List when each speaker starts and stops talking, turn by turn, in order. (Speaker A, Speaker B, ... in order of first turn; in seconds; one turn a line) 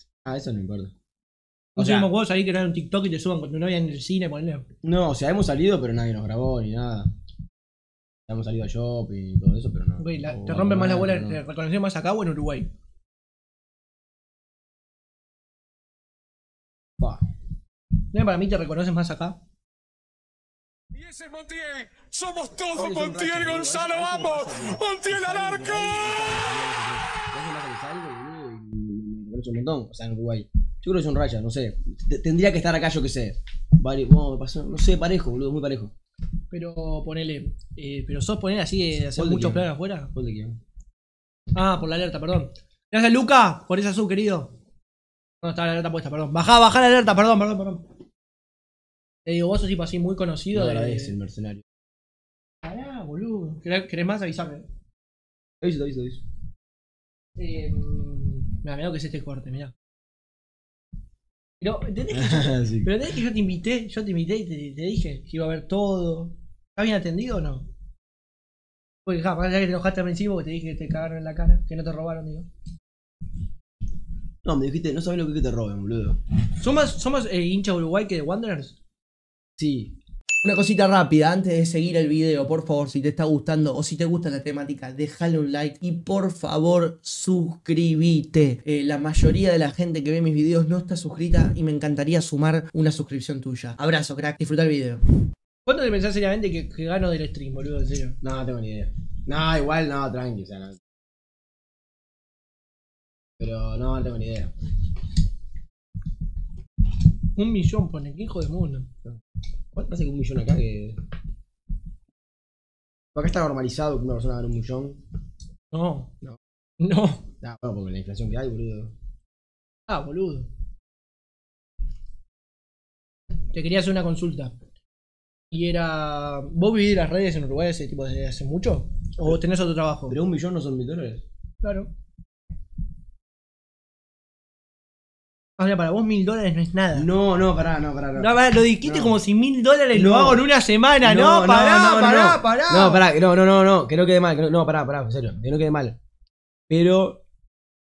Speaker A: 0.2-0.9
Speaker B: 1.8-4.6
Speaker A: 1.8-2.1
Speaker A: 4.8-7.1
Speaker A: 8.3-11.4
Speaker B: 10.0-12.7
Speaker A: 17.0-17.2
Speaker B: 18.1-19.4
Speaker C: 20.9-23.2
Speaker A: 22.6-35.9
Speaker B: 36.5-40.1
Speaker A: 39.1-40.6
Speaker B: 41.5-44.5
Speaker B: 45.4-47.8
Speaker B: 49.2-51.1
Speaker A: 50.5-51.6
Speaker B: 52.6-54.6
Speaker A: 55.6-56.2
Speaker B: 57.4-59.7
Speaker B: 61.6-67.7
Speaker A: 62.1-62.9
Speaker B: 69.0-72.5
Speaker A: 74.4-76.2
Speaker B: 76.5-78.8
Speaker A: 79.6-79.9
Speaker D: 80.4-95.1
Speaker B: 95.6-98.2
Speaker A: 98.2-100.8
Speaker A: 103.4-104.5
Speaker B: 107.3-108.9
Speaker A: 109.7-111.0
Speaker A: 113.1-115.0
Speaker B: 115.7-116.1
Speaker B: 116.8-117.2
Speaker A: 117.4-118.9
Speaker B: 119.9-120.5
Speaker B: 123.5-124.5
Speaker B: 125.5-130.1
Speaker A: 130.1-131.2
Speaker B: 131.6-131.9
Speaker B: 135.6-137.1
Speaker A: 136.9-138.3
Speaker B: 138.2-143.0
Speaker A: 138.8-139.2
Speaker A: 139.9-140.4
Speaker A: 141.0-146.0
Speaker A: 146.7-147.2